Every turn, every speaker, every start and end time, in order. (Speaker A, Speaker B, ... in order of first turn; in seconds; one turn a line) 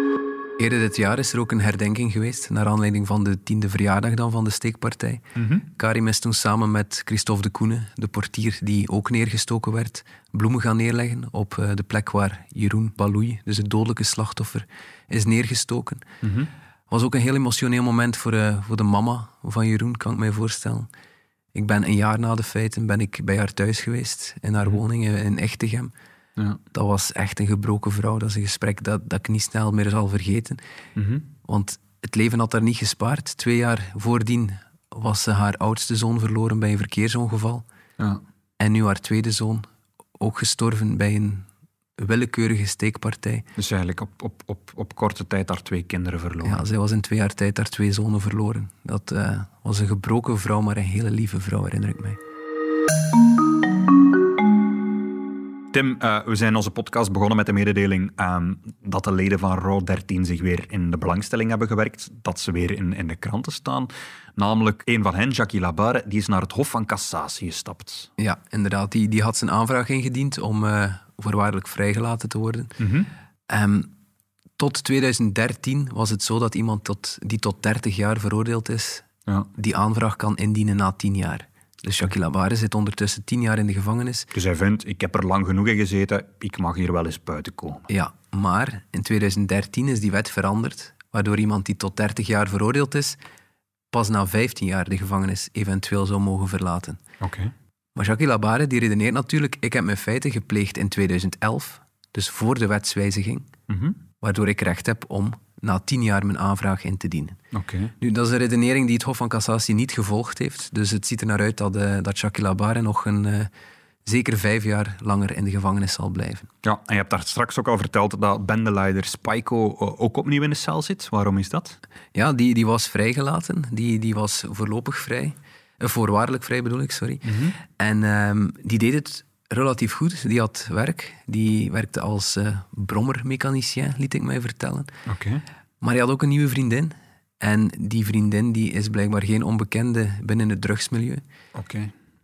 Speaker A: 0.6-16.0
Speaker B: 5.4-5.6
Speaker B: 16.2-16.5
Speaker A: 16.9-20.9
Speaker A: 21.5-25.9
Speaker A: 26.7-30.6
Speaker B: 30.9-31.2
Speaker A: 31.4-37.6
Speaker A: 38.6-39.7
Speaker A: 40.2-41.4
Speaker A: 42.0-43.4
Speaker B: 43.5-46.6
Speaker A: 46.4-52.2
Speaker B: 55.7-68.1
Speaker A: 68.2-72.7
Speaker B: 72.8-73.1
Speaker A: 73.5-73.9
Speaker A: 74.6-84.3
Speaker B: 84.3-87.9
Speaker A: 87.9-93.2
Speaker A: 93.9-97.0
Speaker B: 97.2-97.5
Speaker A: 98.0-103.5
Speaker B: 103.7-104.0
Speaker A: 104.2-107.4
Speaker B: 107.5-107.9
Speaker A: 108.0-113.5
Speaker A: 114.0-116.5
Speaker B: 116.6-121.8
Speaker A: 122.1-134.9
Speaker B: 127.2-127.5
Speaker B: 135.1-135.4
Speaker A: 135.8-141.2
Speaker B: 141.5-141.9